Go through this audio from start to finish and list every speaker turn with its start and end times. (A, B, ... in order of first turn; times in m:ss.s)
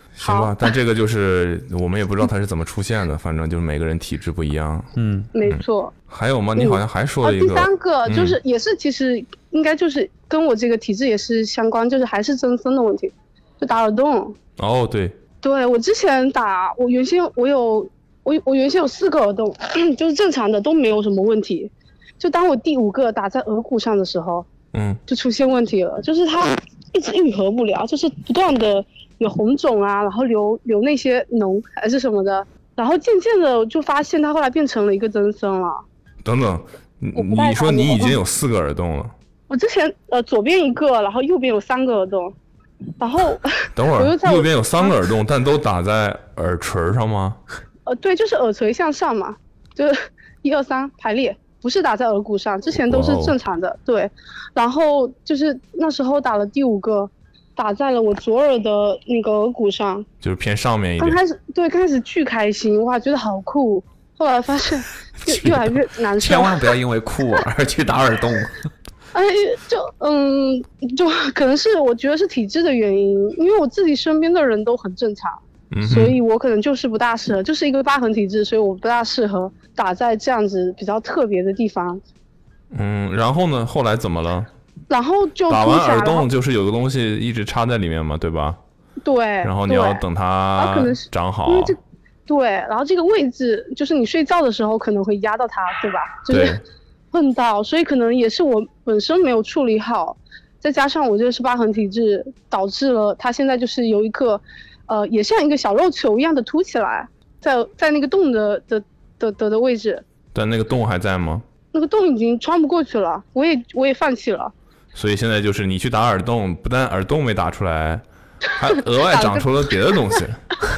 0:00.1-0:04.9 A
0:00.2-0:00.5 B
0:05.0-0:05.3 C
0:05.3-0:05.9 B
0:05.4-0:08.4 A
0:06.6-0:14.4 B
0:14.6-0:15.2 A
0:15.4-0:24.5 B
0:24.7-0:25.0 A
0:25.1-0:35.8 B
0:36.2-0:39.1 A
0:37.1-0:38.2 B
0:39.5-0:42.4 B
0:43.0-0:44.9 B
0:43.8-0:47.4 A
0:47.9-1:00.1 B
0:52.8-0:53.4 A
1:00.2-1:01.2 A
1:01.0-1:06.7 B
1:05.2-1:08.6 C
1:09.1-1:22.0 B
1:15.7-1:16.2 A
1:22.7-1:24.5 A
1:24.9-1:26.3 B
1:25.5-1:28.6 A
1:29.0-1:30.0 B
1:29.4-1:31.8 A
1:30.6-1:36.6 B
1:36.3-1:36.6 A
1:37.1-1:50.0 B
1:50.3-1:51.4 A
1:51.7-1:54.5 B
1:54.9-2:00.4 A
1:59.0-1:59.5 B